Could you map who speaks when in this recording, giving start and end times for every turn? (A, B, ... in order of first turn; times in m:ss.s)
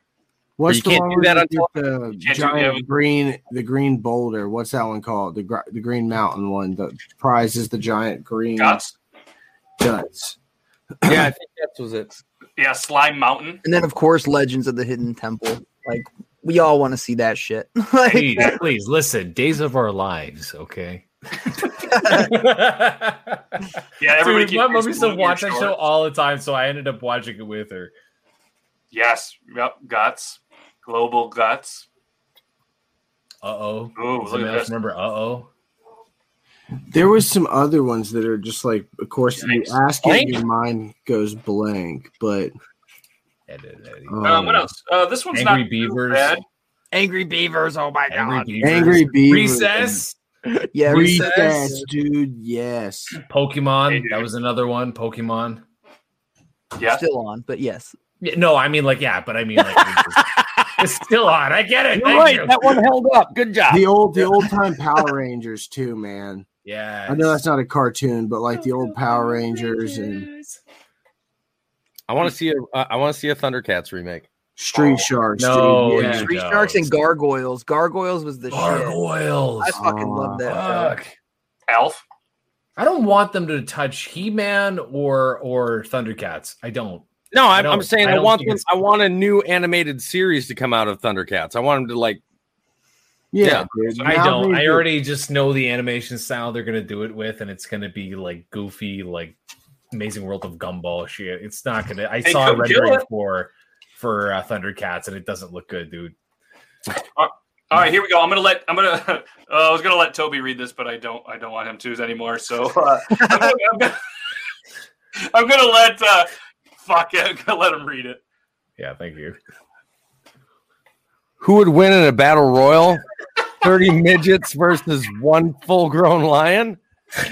0:00.6-0:08.8 A
0:00.7-0:01.7 B
0:02.2-0:02.8 C
0:08.6-0:08.9 C
0:09.8-0:10.4 A
0:11.1-0:12.2 B
0:12.6-0:13.6 C
0:13.6-0:18.6 D
0:18.0-0:23.4 E
0:21.9-0:22.3 D
0:24.0-0:25.8 C
0:24.1-0:27.9 E
0:28.9-0:31.9 C
0:33.4-0:35.5 E
0:34.0-0:34.7 C
0:36.9-0:42.5 A
0:39.4-0:39.8 C
0:40.0-0:40.4 B
0:43.5-0:44.2 E
0:44.1-0:44.7 A
0:44.2-0:46.4 C
0:45.3-0:46.4 E
0:46.9-0:49.0 D
0:48.1-0:50.2 E
0:48.6-0:50.0 A
0:50.7-0:51.9 D
0:50.8-0:51.7 E
0:50.8-0:53.2 A
0:53.3-0:55.6 E
0:53.9-0:54.3 C
0:56.8-0:57.0 C
0:56.9-0:58.0 D
0:58.2-1:02.8 E
1:01.9-1:03.9 B
1:03.7-1:06.4 A
1:06.6-1:07.4 E
1:07.1-1:10.3 A
1:08.6-1:10.6 E
1:12.1-1:14.3 B
1:14.6-1:16.3 A
1:15.4-1:16.9 E
1:15.9-1:19.0 D
1:18.5-1:19.8 E
1:19.6-1:20.9 D
1:19.7-1:20.5 A
1:20.4-1:21.1 E
1:21.7-1:22.0 C
1:22.8-1:28.6 E
1:27.3-1:32.2 B
1:33.3-1:34.9 A
1:33.4-1:33.7 B
1:34.0-1:39.4 E
1:39.9-1:46.1 E
1:42.2-1:43.0 C
1:47.2-1:54.0 C
1:55.2-1:58.2 C
1:58.8-1:59.4 E
2:01.4-2:03.0 B
2:03.6-2:06.8 B